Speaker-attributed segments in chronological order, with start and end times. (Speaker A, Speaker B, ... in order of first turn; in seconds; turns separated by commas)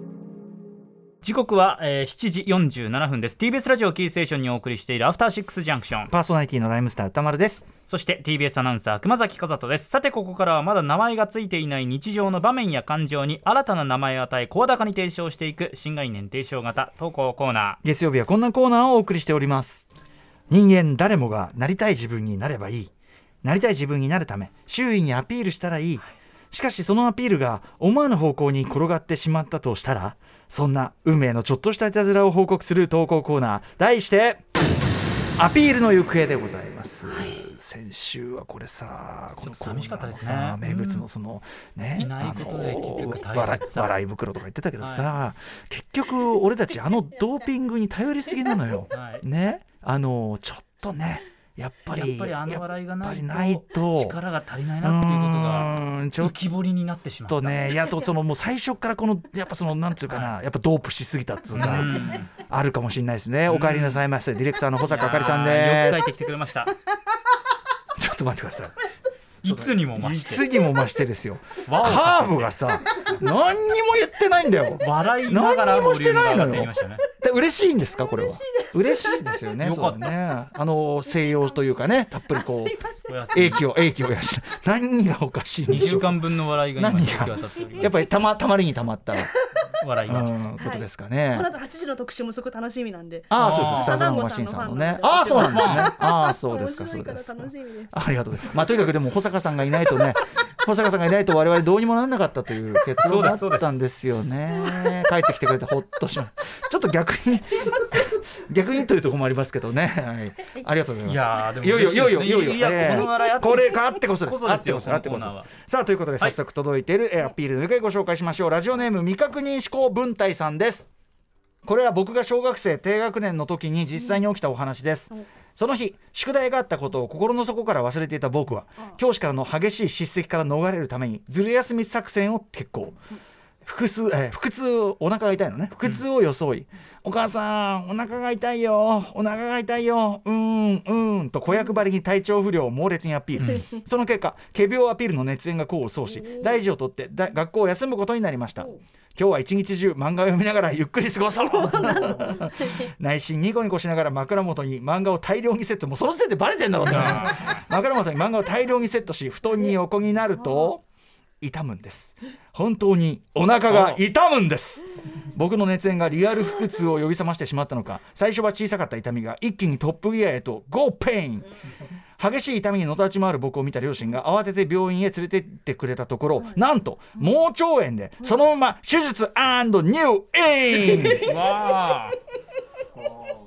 Speaker A: 1.2-6.1, Speaker B: 6.1-7.7, Speaker A: 7.8-17.8, Speaker B: 17.8-19.9, Speaker B: 20.5-22.9, Speaker B: 23.4-34.4, Speaker B: 35.4-54.2, Speaker A: 37.1-37.4, Speaker A: 39.4-41.0, Speaker A: 41.9-44.0, Speaker A: 44.8-45.1, Speaker A: 48.9-49.2, Speaker A: 51.9-57.8, Speaker B: 54.8-56.3, Speaker B: 57.3-66.1, Speaker A: 60.1-60.4, Speaker A: 61.5-62.3, Speaker A: 63.5-64.0, Speaker A: 64.9-66.8, Speaker B: 68.0-68.7, Speaker A: 69.4-70.5, Speaker B: 69.4-82.8, Speaker A: 71.7-72.6, Speaker A: 74.8-77.0, Speaker C: 78.0-79.4, Speaker A: 79.6-80.1, Speaker C: 81.2-81.5, Speaker C: 82.3-82.9, Speaker A: 83.1-83.6, Speaker B: 83.3-89.3, Speaker A: 85.7-87.9, Speaker A: 89.7-90.3, Speaker B: 90.0-91.5, Speaker C: 90.6-98.0, Speaker B: 93.3-120.9, Speaker A: 93.3-94.0, Speaker A: 95.3-95.9, Speaker A: 103.0-103.8, Speaker C: 104.6-105.1, Speaker A: 111.0-115.5, Speaker B: 121.6-133.0, Speaker B: 133.6-160.8, Speaker A: 143.4-143.7, Speaker C: 146.1-146.6, Speaker C: 151.5-152.9, Speaker A: 156.9-157.5, Speaker B: 161.4-171.5, Speaker A: 163.7-164.0, Speaker B: 172.2-181.4, Speaker A: 181.0-182.2